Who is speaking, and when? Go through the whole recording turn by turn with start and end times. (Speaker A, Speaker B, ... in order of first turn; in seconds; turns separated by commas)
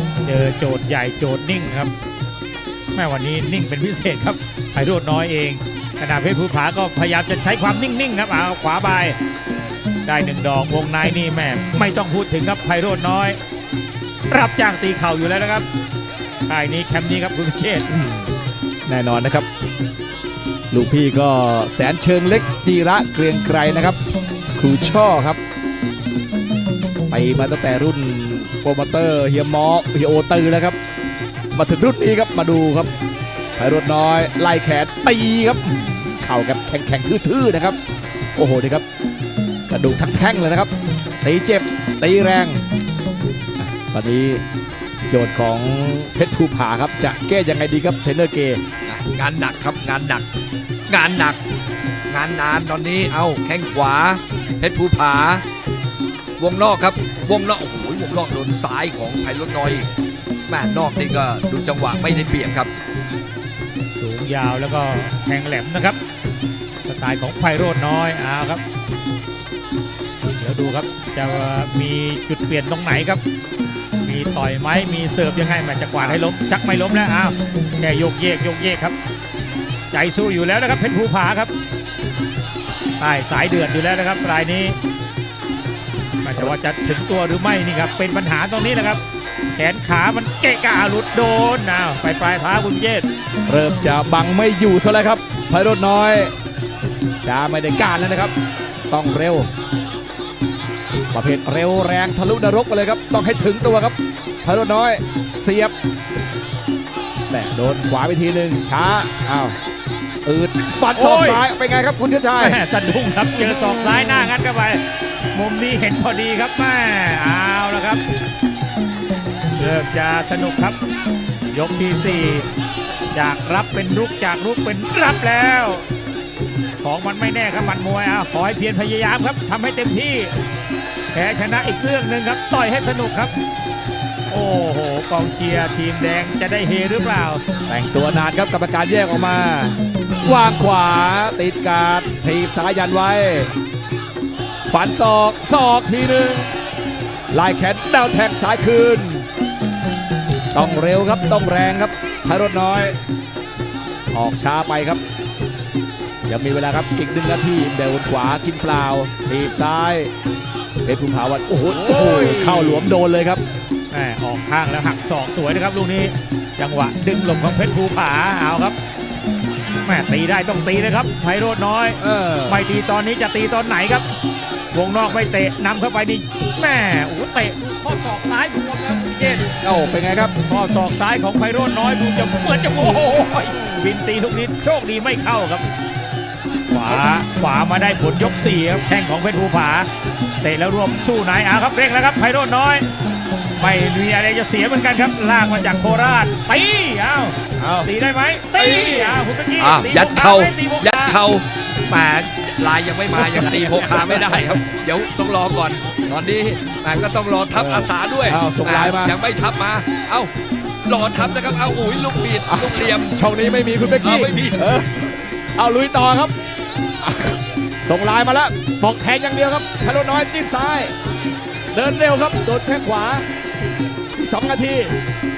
Speaker A: 0.2-1.9, Speaker A: 3.0-9.2, Speaker A: 10.1-13.4, Speaker A: 14.3-15.7, Speaker A: 16.5-17.9, Speaker B: 17.9-18.3, Speaker B: 18.9-19.5, Speaker B: 20.7-24.0, Speaker B: 24.6-25.4, Speaker B: 27.1-30.8, Speaker B: 31.5-32.9, Speaker B: 33.6-37.8, Speaker B: 38.4-38.8, Speaker B: 39.7-40.7, Speaker B: 41.2-42.6, Speaker B: 43.6-44.4, Speaker B: 45.1-48.6, Speaker C: 48.9-50.3, Speaker C: 50.9-51.4, Speaker C: 52.1-55.4, Speaker C: 56.4-59.9, Speaker C: 60.5-62.7, Speaker A: 64.0-66.0, Speaker A: 66.9-68.6, Speaker A: 70.4-73.2, Speaker A: 74.0-79.0, Speaker B: 76.0-76.2, Speaker A: 79.9-81.5, Speaker A: 83.0-84.8, Speaker A: 86.2-89.0, Speaker A: 89.5-93.1, Speaker B: 93.5-96.3, Speaker B: 97.2-98.3, Speaker B: 98.9-99.5, Speaker B: 101.1-105.7, Speaker B: 107.3-109.5, Speaker B: 110.2-112.6, Speaker A: 111.0-111.4, Speaker A: 112.4-118.0, Speaker A: 119.6-120.8, Speaker A: 121.5-122.5, Speaker A: 123.1-125.8, Speaker A: 126.8-130.3, Speaker A: 131.1-133.3, Speaker A: 134.3-137.4, Speaker B: 137.7-143.5, Speaker B: 144.7-146.5, Speaker B: 147.3-149.3, Speaker B: 150.5-152.9, Speaker B: 154.1-155.0, Speaker B: 156.3-160.1, Speaker B: 160.8-163.4, Speaker A: 161.7-162.9, Speaker A: 163.9-168.8, Speaker A: 169.8-174.1, Speaker B: 172.0-172.6, Speaker A: 174.7-179.5, Speaker B: 179.6-180.3, Speaker A: 180.4-185.7, Speaker A: 186.7-189.9, Speaker A: 190.4-192.9, Speaker A: 193.6-201.2, Speaker B: 197.6-197.9, Speaker B: 198.6-199.2, Speaker C: 199.6-210.3, Speaker B: 203.1-204.6, Speaker B: 207.5-209.1, Speaker C: 210.8-213.2, Speaker B: 212.5-216.3, Speaker C: 214.0-214.7, Speaker B: 217.0-220.9, Speaker B: 221.7-223.3, Speaker B: 224.2-224.9